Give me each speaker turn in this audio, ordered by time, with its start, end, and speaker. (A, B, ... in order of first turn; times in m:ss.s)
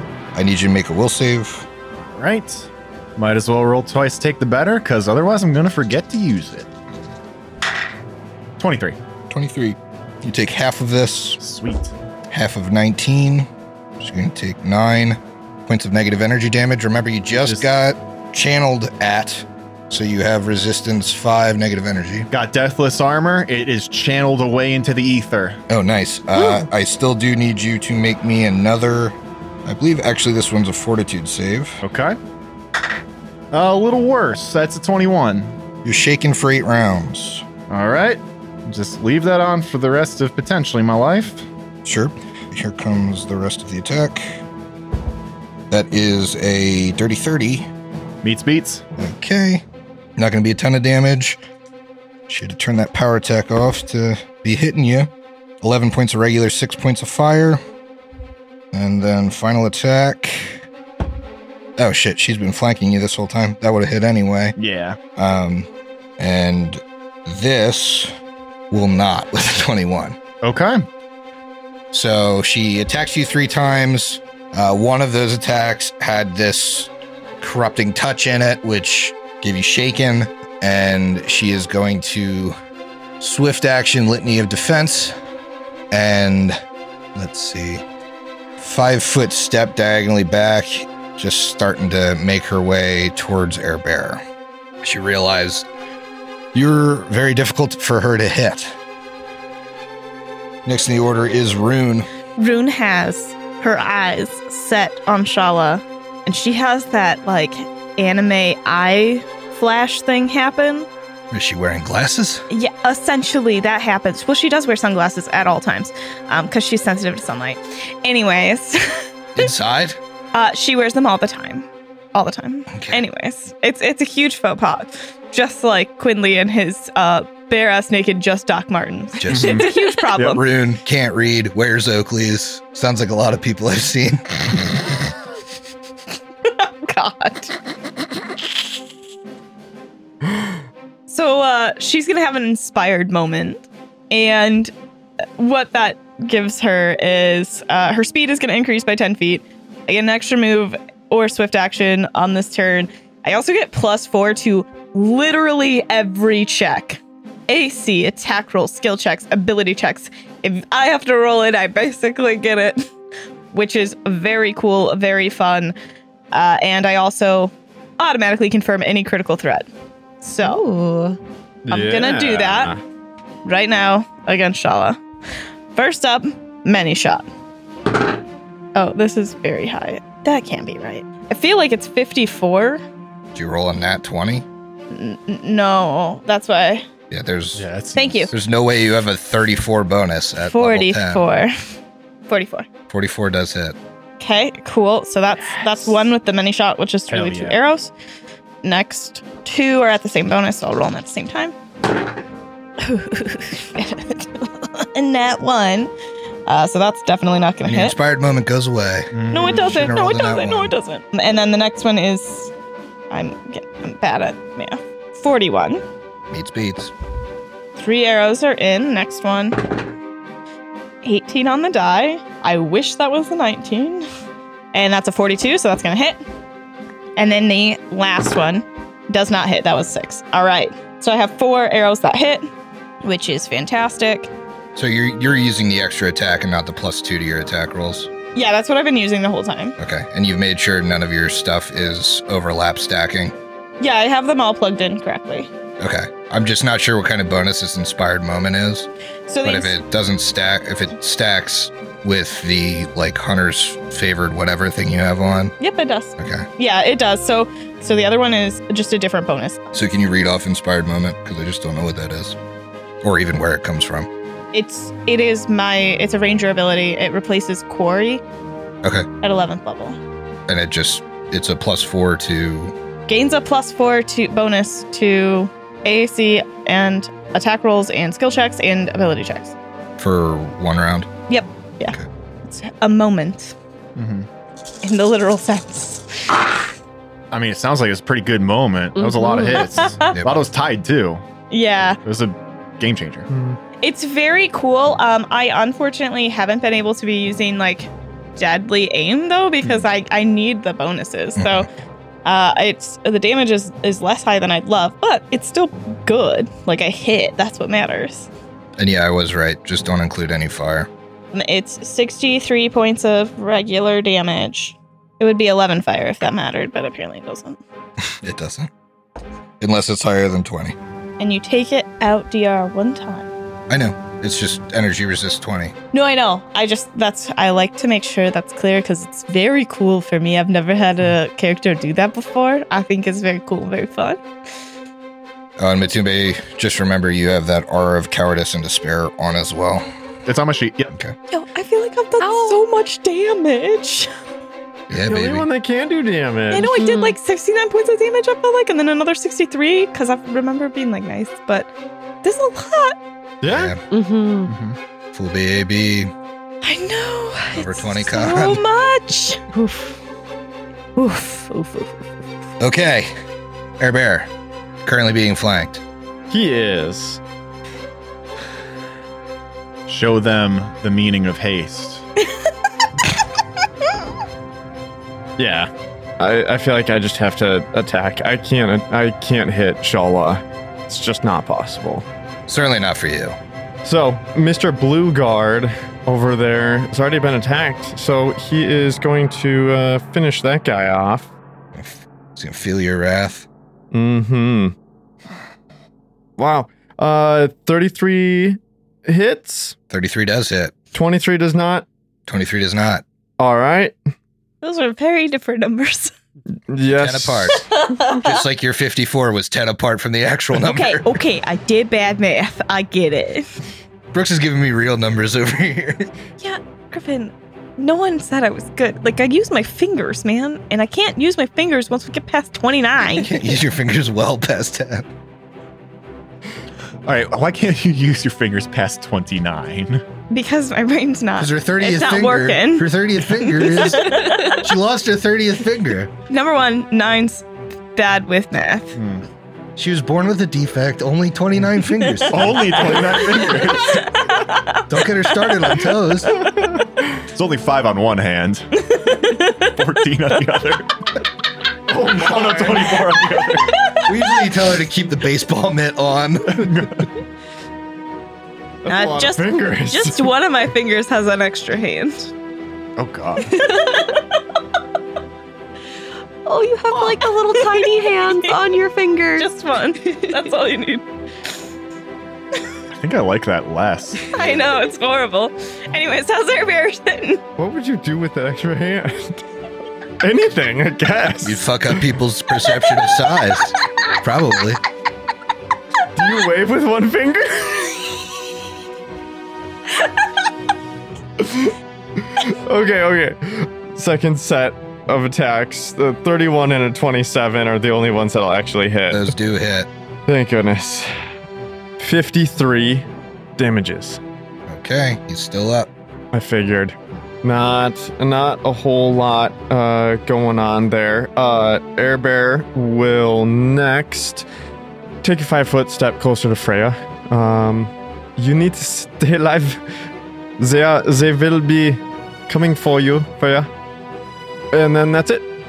0:00.4-0:01.7 A
0:02.1-0:06.7 B
0:08.6-0:09.0 B
0:09.3-0:11.4 A
0:11.4-0:11.9 B
0:12.3-0:13.5 A
0:14.0-0:22.3 A
0:22.3-0:25.6 B
0:25.7-0:31.8 A
0:31.8-0:32.2 B
0:33.5-0:35.6 B
0:35.8-0:37.4 A
0:37.7-0:41.4 B
0:41.8-0:44.2 A
0:45.7-0:47.7 A
0:48.2-0:48.8 B
0:49.0-0:49.6 A
0:50.2-0:51.4 A
0:52.3-0:55.1 A
0:55.6-0:57.6 A
0:58.7-1:00.6 A
1:01.8-1:04.6 A
1:04.6-1:05.0 B
1:05.2-1:05.7 A
1:06.2-1:08.1 A
1:08.7-1:10.2 A
1:10.4-1:10.9 B
1:11.9-1:22.6 A
1:23.2-1:25.1 A
1:25.9-1:26.6 A
1:27.2-1:27.8 A
1:28.6-1:34.2 A
1:34.8-1:35.7 A
1:36.5-1:38.8 A
1:40.7-1:42.1 A
1:42.4-1:50.9 C
1:51.3-1:52.4 A
1:52.5-1:59.0 C
1:59.4-2:00.0 A
2:00.3-2:10.4 C
2:02.7-2:03.0 A
2:09.2-2:14.7 A
2:09.3-2:09.7 B
2:16.5-2:17.5 C
2:21.1-2:24.7 C
2:25.4-2:42.9 C
2:43.5-2:45.7 C
2:46.3-2:49.7 C
2:50.2-2:50.6 C
2:50.4-2:51.2 D
2:51.7-2:52.8 E
2:51.7-2:52.7 C
2:53.4-2:55.0 C
2:55.7-2:57.3 C
2:58.8-3:02.8 C
3:03.4-3:04.5 A
3:04.9-3:06.9 C
3:07.1-3:07.7 A
3:07.6-3:08.3 B
3:08.0-3:08.3 C
3:08.3-3:11.2 A
3:10.4-3:11.5 C
3:12.3-3:12.7 C
3:12.9-3:13.8 A
3:14.2-3:17.9 C
3:17.1-3:17.6 B
3:18.6-3:21.6 C
3:22.8-3:25.9 C
3:26.5-3:28.0 C
3:27.6-3:30.7 A
3:29.1-3:29.7 B
3:29.3-3:32.5 C
3:33.1-3:35.8 C
3:36.3-3:36.9 A
3:37.8-3:39.6 C
3:41.0-3:44.1 C
3:44.7-3:46.2 C
3:47.2-3:52.5 C
3:53.0-3:54.3 C
3:54.8-3:58.1 A
3:58.4-3:59.8 C
3:59.8-4:03.3 A
4:03.8-4:05.5 C
4:05.8-4:08.9 A
4:09.3-4:09.8 C
4:09.4-4:15.6 A
4:15.6-4:19.6 C
4:16.2-4:16.5 A
4:19.7-4:22.4 A
4:23.0-4:24.1 A
4:24.5-4:28.2 C
4:29.2-4:30.0 C
4:30.5-4:32.7 A
4:33.1-4:39.6 C
4:40.0-4:41.1 A
4:41.3-4:43.6 C
4:44.0-4:44.3 B
4:44.8-4:46.4 C
4:47.3-4:51.2 B
4:49.0-4:49.7 D
4:49.6-4:50.2 C
4:50.1-4:50.5 A
4:51.5-4:52.0 C
4:52.0-4:53.3 B
4:53.3-4:53.6 E
4:53.8-5:01.7 C
5:01.4-5:01.7 A
5:02.2-5:08.3 C
5:08.8-5:10.9 A
5:11.3-5:17.6 C
5:18.1-5:18.7 A
5:19.6-5:20.8 A
5:21.2-5:23.3 C
5:23.7-5:25.7 A
5:25.9-5:34.2 C
5:35.6-5:39.8 A
5:40.3-5:40.9 B
5:41.3-5:44.1 C
5:42.2-5:42.6 D
5:44.9-5:45.5 A
5:45.0-5:46.8 E
5:46.5-5:51.7 C
5:46.7-5:47.2 D
5:52.2-5:53.0 C
5:53.4-5:53.7 E
5:53.4-5:53.8 A
5:53.9-5:54.5 D
5:54.5-5:54.8 B
5:55.1-5:56.1 A
5:56.6-5:59.4 C
5:57.6-5:58.6 A
5:59.5-6:00.0 D
6:01.0-6:01.8 D
6:02.6-6:03.1 A
6:03.8-6:04.3 A
6:04.8-6:05.8 A
6:06.3-6:07.2 E
6:09.9-6:12.1 B
6:15.4-6:22.1 E
6:22.5-6:23.4 A
6:23.8-6:31.3 E
6:31.7-6:33.5 A
6:33.9-6:34.8 E
6:36.4-6:39.8 E
6:39.9-6:40.7 A
6:40.9-6:41.9 E
6:42.3-6:43.0 A
6:43.4-6:44.0 E
6:44.6-6:46.1 C
6:46.7-6:47.6 E
6:47.0-6:51.2 A
6:47.7-6:48.3 C
6:50.6-6:53.5 C
6:54.1-6:56.1 A
6:56.4-7:03.6 C
7:03.1-7:05.1 A
7:07.1-7:10.0 B
7:10.3-7:14.6 C
7:11.4-7:16.1 A
7:16.3-7:19.0 C
7:19.0-7:19.3 B
7:19.8-7:22.9 A
7:22.0-7:22.3 C
7:22.3-7:24.2 B
7:23.2-7:24.9 C
7:24.9-7:26.4 A
7:27.3-7:28.7 B
7:28.8-7:29.7 C
7:29.6-7:30.9 B
7:31.9-7:33.2 E
7:32.0-7:33.8 B
7:33.7-7:34.0 C
7:34.1-7:37.0 A
7:36.5-7:37.1 B
7:38.8-7:40.3 E
7:38.9-7:42.3 C
7:43.0-7:43.6 B
7:43.4-7:44.2 C
7:46.4-7:49.5 D
7:47.3-7:48.5 C
7:49.4-7:51.0 C
7:52.9-7:54.4 B
7:54.3-7:57.4 C
7:57.6-7:59.4 E
8:00.2-8:01.6 E
8:01.4-8:04.8 A
8:06.2-8:08.3 E
8:11.4-8:19.3 E
8:19.1-8:19.9 A
8:20.3-8:21.1 E
8:22.0-8:23.1 E
8:23.6-8:24.2 E
8:24.7-8:25.9 A
8:26.3-8:34.5 E
8:35.2-8:39.8 E
8:40.6-8:43.7 E
8:44.7-8:45.4 E